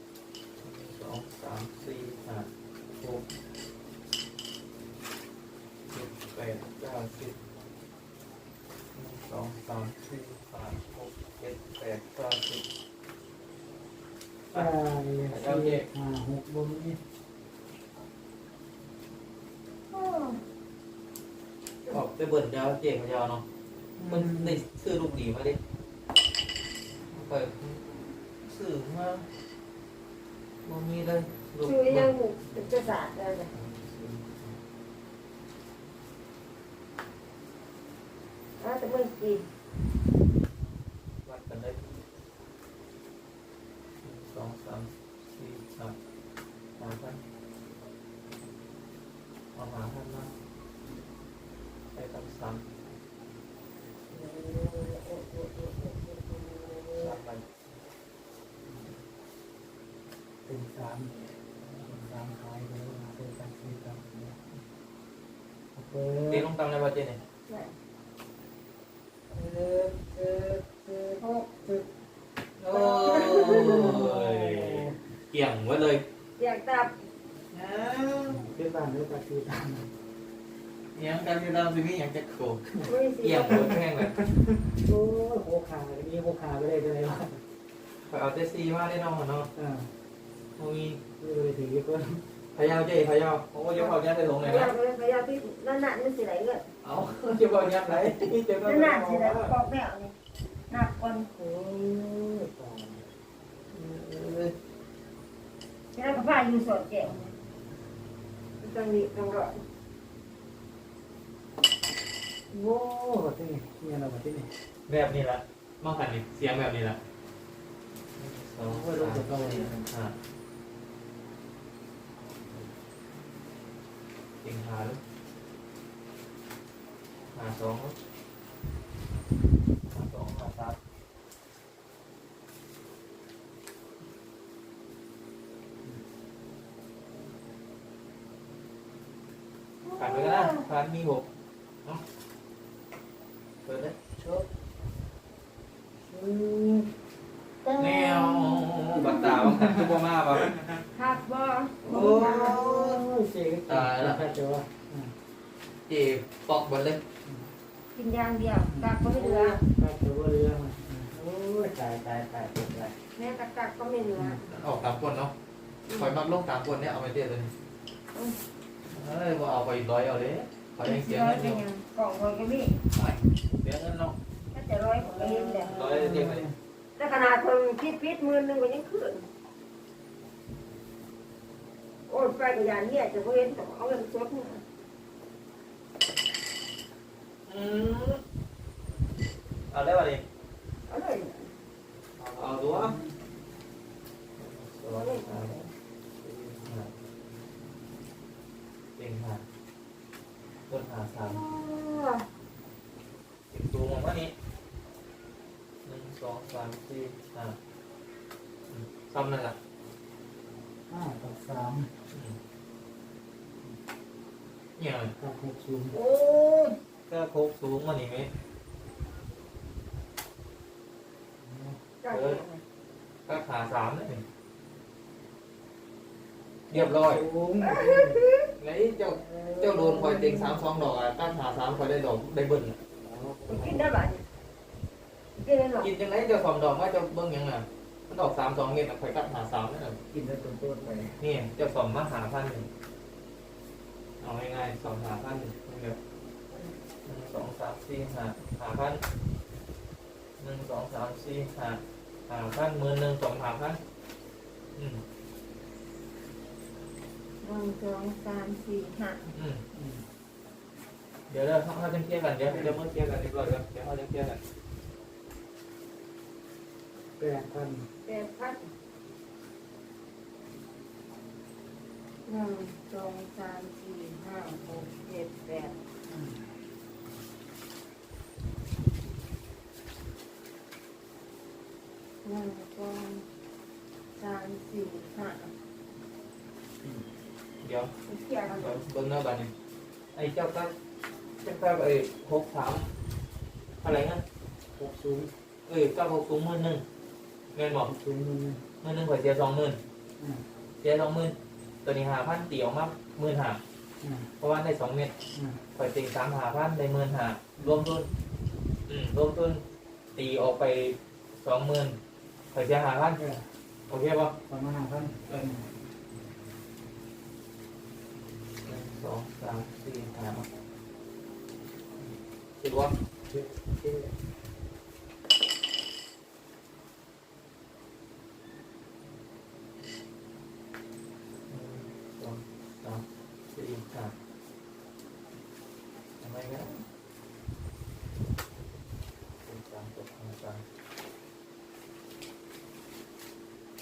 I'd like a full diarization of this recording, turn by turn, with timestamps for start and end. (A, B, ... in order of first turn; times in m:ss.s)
0:00.6-0:02.5 A
0:03.0-0:03.3 A
0:05.9-0:07.4 A
0:08.9-0:12.6 A
0:14.5-0:17.0 B
0:15.3-0:15.9 A
0:19.9-0:20.4 C
0:21.9-0:23.4 A
0:24.0-0:24.6 B
0:24.1-0:25.6 A
0:27.1-0:29.3 A
0:30.6-0:32.8 A
0:31.6-0:33.5 C
0:33.5-0:34.6 A
0:38.6-0:39.4 C
0:41.2-0:42.0 A
0:44.0-0:46.0 A
0:46.8-0:47.2 A
0:49.6-0:50.3 A
0:51.9-0:52.7 A
0:54.1-0:57.2 B
0:57.0-0:57.5 A
0:58.6-0:59.0 B
1:00.5-1:04.4 B
1:05.8-1:06.5 B
1:06.3-1:07.2 A
1:07.5-1:07.7 C
1:09.3-1:11.9 B
1:12.6-1:16.0 A
1:12.7-1:13.8 C
1:13.5-1:15.0 B
1:16.4-1:16.9 C
1:17.5-1:18.4 A
1:18.3-1:19.9 B
1:21.0-1:24.2 A
1:22.8-1:23.7 C
1:23.7-1:27.4 B
1:28.0-1:29.5 A
1:29.6-1:29.9 B
1:30.6-1:31.0 A
1:31.2-1:32.3 B
1:32.6-1:34.7 A
1:33.8-1:36.7 C
1:36.8-1:39.6 A
1:38.6-1:40.1 C
1:40.7-1:41.3 C
1:41.4-1:43.1 B
1:43.7-1:44.5 A
1:46.0-1:47.3 C
1:48.6-1:49.5 C
1:52.5-1:54.5 B
1:54.9-1:57.0 A
1:58.2-2:00.2 A
1:58.7-1:59.9 B
2:04.4-2:05.0 A
2:07.3-2:08.0 A
2:09.9-2:10.8 A
2:19.8-2:20.6 C
2:20.0-2:21.3 A
2:23.6-2:24.0 A
2:24.2-2:24.5 B
2:26.1-2:26.9 B
2:27.6-2:29.9 B
2:27.8-2:30.8 A
2:30.5-2:30.8 B
2:31.0-2:32.5 C
2:31.8-2:33.1 A
2:31.9-2:35.1 B
2:33.7-2:34.3 A
2:35.9-2:37.0 A
2:37.2-2:37.5 B
2:38.0-2:39.6 C
2:38.7-2:43.0 B
2:43.2-2:44.2 C
2:44.3-2:45.3 A
2:45.9-2:46.2 C
2:45.9-2:47.5 A
2:48.9-2:51.6 A
2:50.8-2:52.8 C
2:52.9-2:54.2 A
2:54.5-2:55.7 C
2:55.0-2:56.6 B
2:55.6-2:56.5 A
2:57.0-2:59.3 C
3:02.1-3:04.6 C
3:07.5-3:08.2 A
3:09.7-3:10.2 A
3:10.9-3:11.5 C
3:12.2-3:13.0 A
3:12.7-3:13.2 B
3:14.4-3:15.6 A
3:15.0-3:15.7 C
3:16.2-3:16.9 A
3:19.0-3:19.4 A
3:20.7-3:21.4 A
3:21.2-3:22.2 C
3:23.5-3:24.3 A
3:25.8-3:27.6 A
3:28.7-3:29.6 A
3:30.9-3:31.9 B
3:32.1-3:32.4 A
3:34.8-3:35.1 A
3:35.2-3:36.0 B
3:35.9-3:36.8 C
3:37.1-3:38.3 A
3:41.4-3:41.8 B
3:42.0-3:42.6 C
3:42.1-3:42.4 A
3:43.3-3:44.2 A
3:46.7-3:47.3 A
3:46.7-3:48.2 B
3:47.8-3:48.4 C
3:48.6-3:52.8 A
3:49.2-3:50.6 B
3:53.0-3:54.0 B
3:53.5-3:54.2 C
3:55.4-3:55.9 C
3:55.8-4:00.0 A
4:00.1-4:01.2 B
4:01.2-4:02.7 A
4:04.2-4:06.0 A
4:07.0-4:09.0 A
4:10.4-4:13.8 A
4:14.8-4:15.0 A
4:17.4-4:19.2 C
4:19.3-4:19.6 A
4:19.7-4:20.1 B
4:21.3-4:24.4 A
4:27.2-4:27.9 B
4:28.1-4:28.7 C
4:32.3-4:35.7 C
4:36.1-4:36.5 B
4:42.2-4:43.0 C
4:44.2-4:45.5 C
4:46.8-4:47.1 B
4:47.6-4:47.9 A
4:48.1-4:48.4 C
4:48.5-4:49.5 A
4:50.1-4:50.7 A
4:51.4-4:52.9 A
4:53.8-4:54.2 A
4:54.8-4:55.3 B
4:55.7-4:56.8 A
4:57.5-4:57.9 A
4:57.7-4:58.6 B
4:58.8-4:59.8 A
5:00.2-5:00.5 B
5:00.8-5:03.6 A
5:04.0-5:04.3 B
5:04.4-5:05.1 A
5:05.3-5:05.6 B
5:05.8-5:08.1 A
5:08.9-5:09.6 A
5:10.2-5:12.0 A
5:12.5-5:13.2 A
5:13.2-5:13.5 B
5:13.9-5:14.4 A
5:14.5-5:15.7 B
5:18.6-5:20.5 A
5:22.6-5:22.9 A
5:23.3-5:24.2 B
5:31.5-5:34.1 A
5:36.2-5:36.8 A
5:39.4-5:40.6 A